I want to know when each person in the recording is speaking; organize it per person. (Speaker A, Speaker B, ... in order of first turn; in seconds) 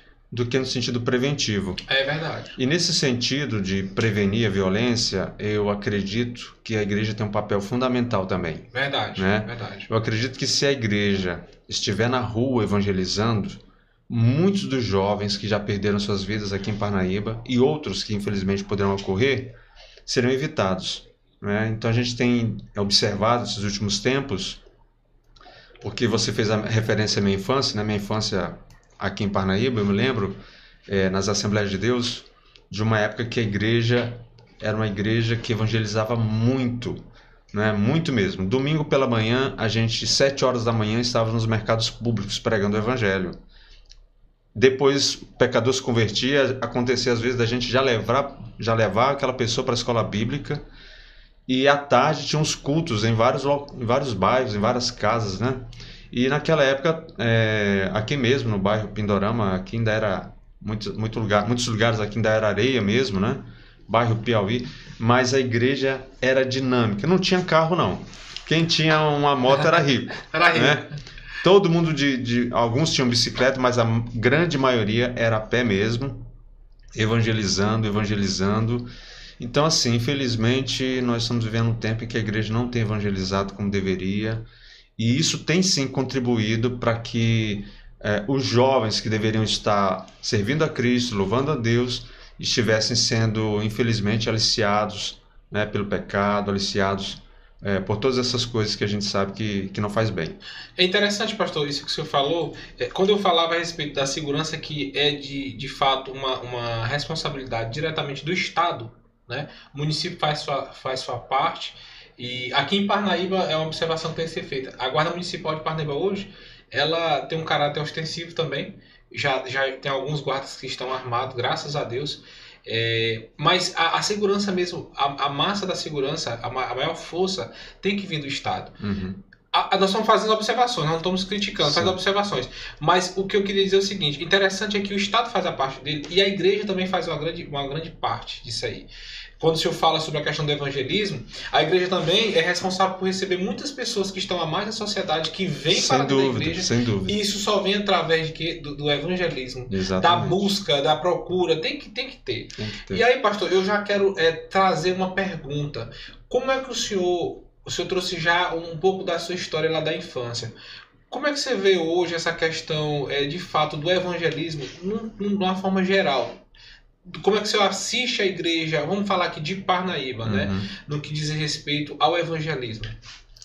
Speaker A: 0.3-1.8, 2.5-8.7, 9.2-19.5, 20.1-24.6, 25.8-43.4, 44.5-50.6, 51.5-70.9, 71.4-76.2, 76.9-84.4, 85.0-100.4, 128.8-129.2, 131.6-132.0, 145.7-147.2, 149.7-150.5, 152.6-153.0, 170.2-170.7
Speaker B: 1.9-2.6, 8.7-9.9, 70.3-70.9, 100.8-128.8, 129.5-138.9, 139.4-160.5, 161.1-166.4, 167.1-172.9